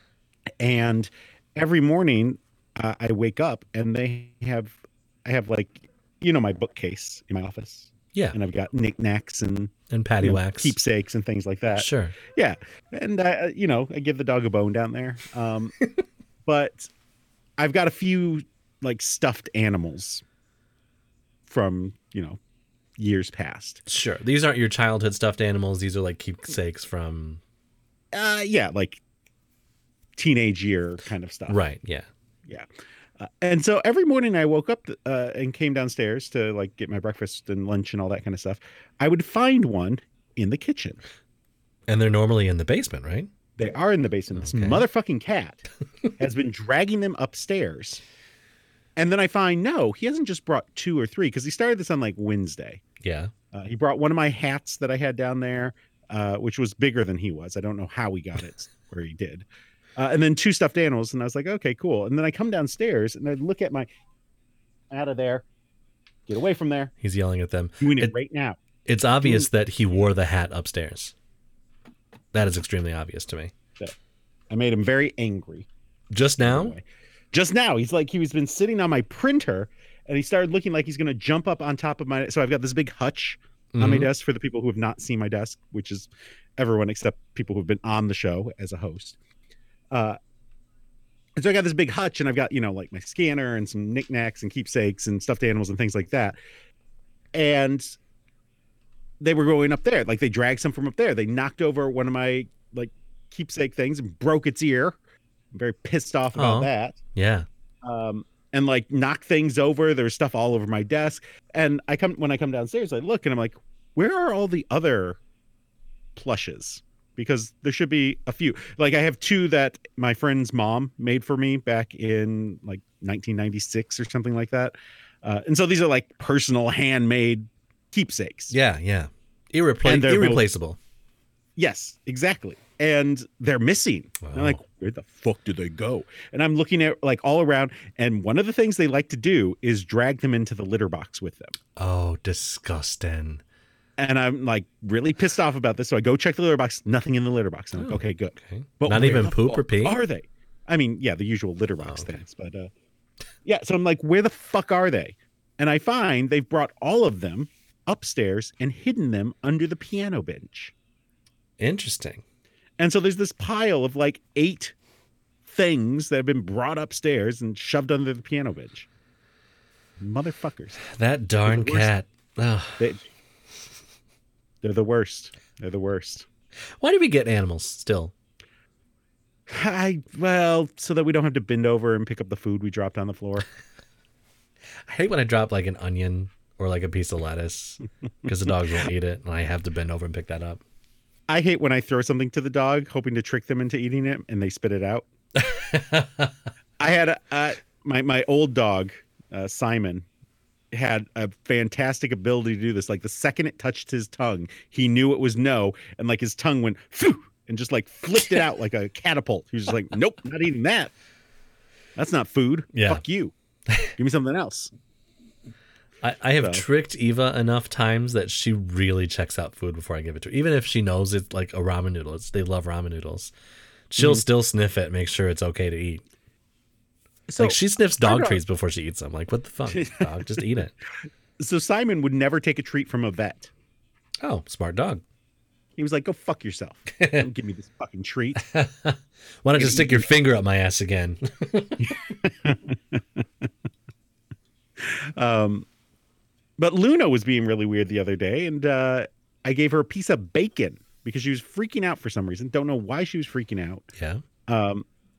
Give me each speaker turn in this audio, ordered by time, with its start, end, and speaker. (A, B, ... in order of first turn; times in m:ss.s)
0:00.6-0:15.7 A
0:09.9-0:10.8 B
0:11.8-0:12.1 B
0:16.4-0:16.9 A
0:17.6-0:20.2 A
0:21.5-0:22.4 A
0:23.0-0:23.8 A
0:23.9-0:27.4 B
0:28.1-0:29.0 A
0:30.2-0:31.6 A
0:31.5-0:32.1 B
0:33.2-0:41.0 A
0:41.9-0:43.3 B
0:43.6-0:45.6 A
0:44.3-0:44.8 B
0:46.2-0:48.0 A
0:49.0-0:52.8 A
0:53.0-0:53.3 B
0:53.5-0:59.4 A
1:00.0-1:03.9 A
1:04.9-1:05.4 A
1:06.3-1:06.9 A
1:07.0-1:08.1 B
1:07.8-1:08.6 A
1:08.8-1:11.1 B
1:09.2-1:09.5 A
1:12.3-1:13.5 B
1:14.5-1:15.7 A
1:16.1-1:16.8 B
1:16.4-1:29.2 A
1:23.7-1:24.1 B
1:29.9-1:30.2 A
1:31.4-1:36.4 A
1:37.3-1:38.0 A
1:39.2-1:45.0 A
1:45.5-1:47.0 A
1:46.3-1:47.5 B
1:47.8-1:55.2 A
1:56.1-2:08.5 A
2:08.5-2:10.8 B
2:09.8-2:10.4 A
2:11.6-2:21.6 A
2:14.2-2:14.6 B
2:21.8-2:23.4 B
2:24.0-2:32.7 A
2:27.8-2:30.0 B
2:31.8-2:32.1 B
2:33.4-2:40.7 A
2:41.6-2:42.2 B
2:42.8-2:44.7 A
2:45.4-2:48.9 A
2:50.0-2:50.8 A
2:50.9-2:52.8 B
2:51.4-2:51.9 A
2:52.8-2:53.1 A
2:54.6-2:56.2 A
2:56.8-2:58.1 B
2:59.5-3:03.4 A
3:04.9-3:10.6 B
3:11.3-3:15.0 A
3:15.4-3:16.3 B
3:16.8-3:20.0 A
3:20.7-3:30.9 A
3:32.0-3:33.3 A
3:32.7-3:33.0 B
3:34.0-3:34.7 A
3:36.0-3:43.3 B
3:36.4-3:36.6 A
3:43.9-3:46.0 B
3:44.0-3:44.2 A
3:47.3-3:48.4 A
3:47.4-3:50.7 B
3:49.7-3:50.4 A
3:51.4-3:53.5 A
3:54.2-3:55.0 B
3:55.8-3:58.4 A
3:57.0-3:57.2 B
3:58.4-4:01.9 B
3:59.6-4:00.1 A
4:01.8-4:03.5 A
4:04.8-4:05.7 A
4:06.6-4:13.8 A
4:14.0-4:14.2 B
4:14.5-4:14.8 A